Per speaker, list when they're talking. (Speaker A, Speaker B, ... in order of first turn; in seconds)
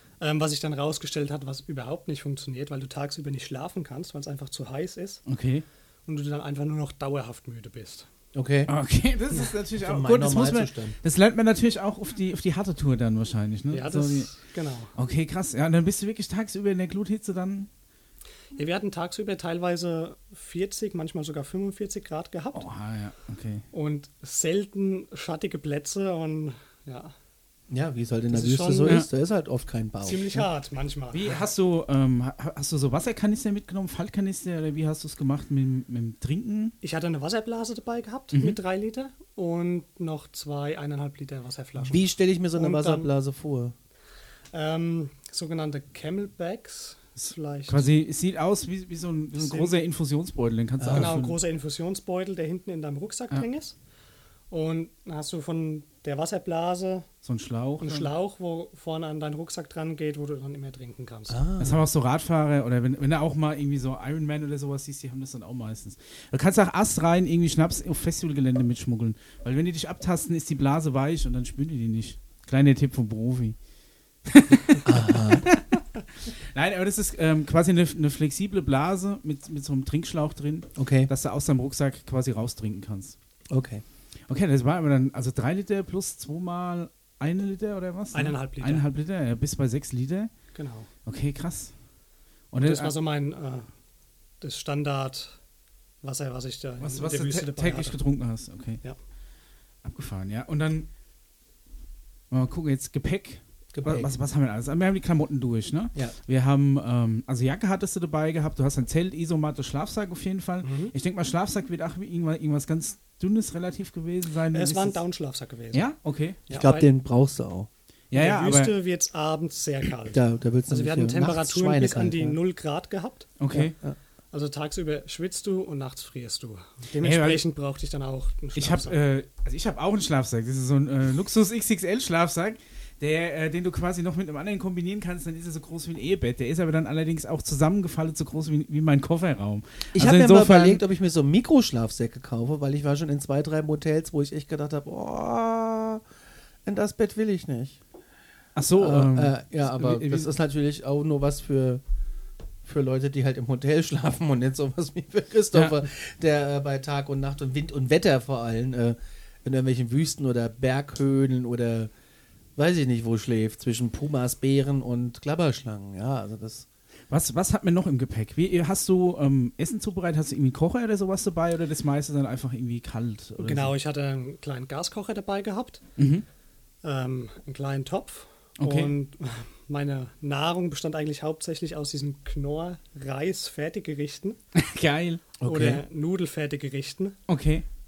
Speaker A: 0.2-5.2, 6.0-8.1, 13.7-14.9, 18.6-22.7, 23.7-27.1, 28.3-29.0, 30.0-31.4, 36.8-43.1, 44.5-47.9, 49.4-49.7, 50.9-53.8, 54.5-57.1, 57.8-61.4, 88.1-88.8, 90.5-90.9, 92.6-93.7, 94.4-95.4, 96.0-98.0, 110.6-110.9, 114.5-115.9, 116.5-116.9, 118.1-123.3, 124.3-129.0, 173.4-175.8, 176.8-184.4, 185.4-187.2
Speaker B: 5.2-5.6, 8.7-14.3, 14.9-17.7, 22.5-23.6, 31.1-36.7, 38.3-38.6, 47.7-51.4, 57.2-58.1, 61.6-73.5, 74.2-83.1, 84.3-90.3, 91.0-91.7, 92.5-92.9, 96.8-98.8, 99.8-100.9, 102.3-115.0, 115.7-116.4, 118.1-118.7, 123.4-123.7, 127.0-127.4, 128.6-140.8, 148.6-150.3, 167.1-173.7, 176.0-176.2, 178.6-178.9, 184.5-185.3, 187.3-187.6
Speaker C: 8.3-8.7, 9.8-10.9, 27.7-30.4, 41.8-43.7, 50.8-51.2, 61.3-61.8, 74.8-75.5, 80.8-81.1, 83.5-83.8, 103.7-104.1, 116.5-117.7, 120.1-122.4, 123.5-124.0, 139.9-146.0, 146.6-147.8, 148.8-151.8, 152.6-161.9, 162.6-166.7, 185.4-185.8